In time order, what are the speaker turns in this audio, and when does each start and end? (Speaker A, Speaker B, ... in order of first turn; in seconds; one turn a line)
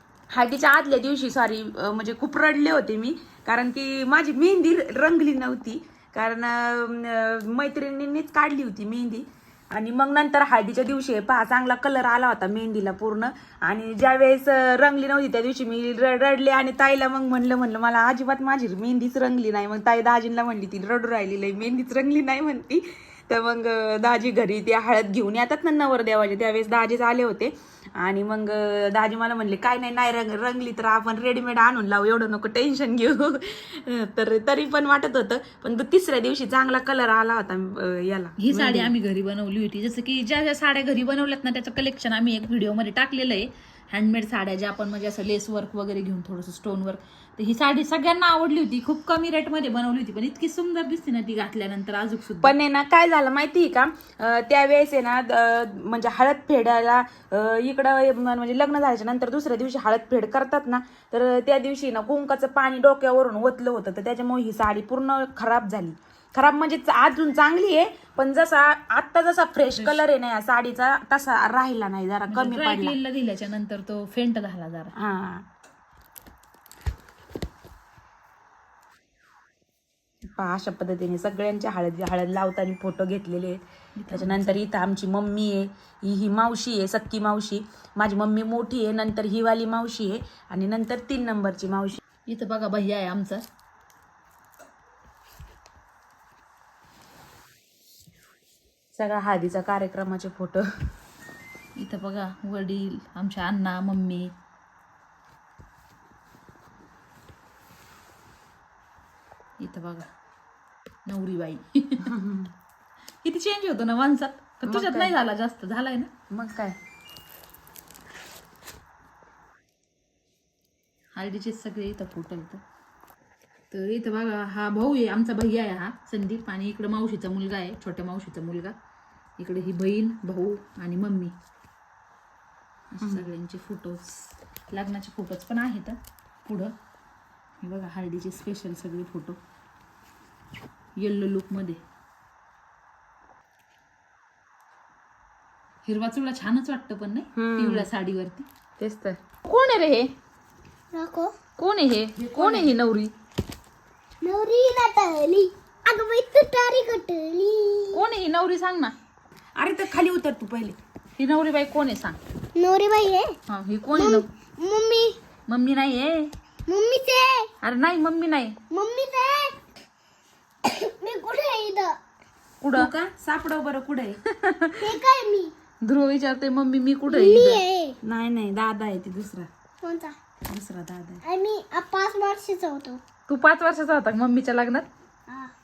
Speaker A: 0.3-38.9
Speaker B: 38.4-52.5
Speaker A: 52.4-73.0
Speaker B: 72.3-74.9
Speaker A: 75.0-75.5
Speaker A: 80.2-92.0
Speaker B: 84.0-84.6
Speaker B: 92.3-93.4
Speaker A: 98.9-100.9
Speaker B: 101.8-104.3
Speaker B: 109.6-110.1
Speaker B: 111.0-112.1
Speaker A: 112.0-112.5
Speaker B: 113.2-116.1
Speaker A: 114.6-115.1
Speaker A: 116.3-116.8
Speaker B: 121.2-122.6
Speaker B: 123.7-128.7
Speaker B: 129.4-131.3
Speaker B: 132.9-136.7
Speaker A: 133.0-133.3
Speaker B: 137.6-139.4
Speaker B: 141.0-141.8
Speaker B: 145.8-148.5
Speaker A: 147.3-147.9
Speaker A: 148.8-149.2
Speaker B: 149.4-150.1
Speaker C: 150.9-151.3
Speaker B: 151.6-153.1
Speaker A: 152.2-152.8
Speaker C: 154.2-158.0
Speaker B: 157.9-158.9
Speaker A: 159.6-160.8
Speaker B: 161.2-162.2
Speaker C: 162.5-163.4
Speaker B: 163.5-164.2
Speaker C: 163.9-165.2
Speaker B: 165.5-166.3
Speaker C: 166.7-167.5
Speaker B: 167.6-168.6
Speaker C: 168.7-169.6
Speaker C: 170.6-172.0
Speaker B: 172.6-172.9
Speaker A: 172.7-174.2
Speaker B: 174.2-174.9
Speaker C: 174.8-175.5
Speaker B: 175.8-177.6
Speaker C: 177.1-178.0
Speaker A: 178.0-179.5
Speaker C: 179.8-180.2
Speaker A: 180.5-181.2
Speaker C: 181.2-183.0
Speaker B: 183.3-184.9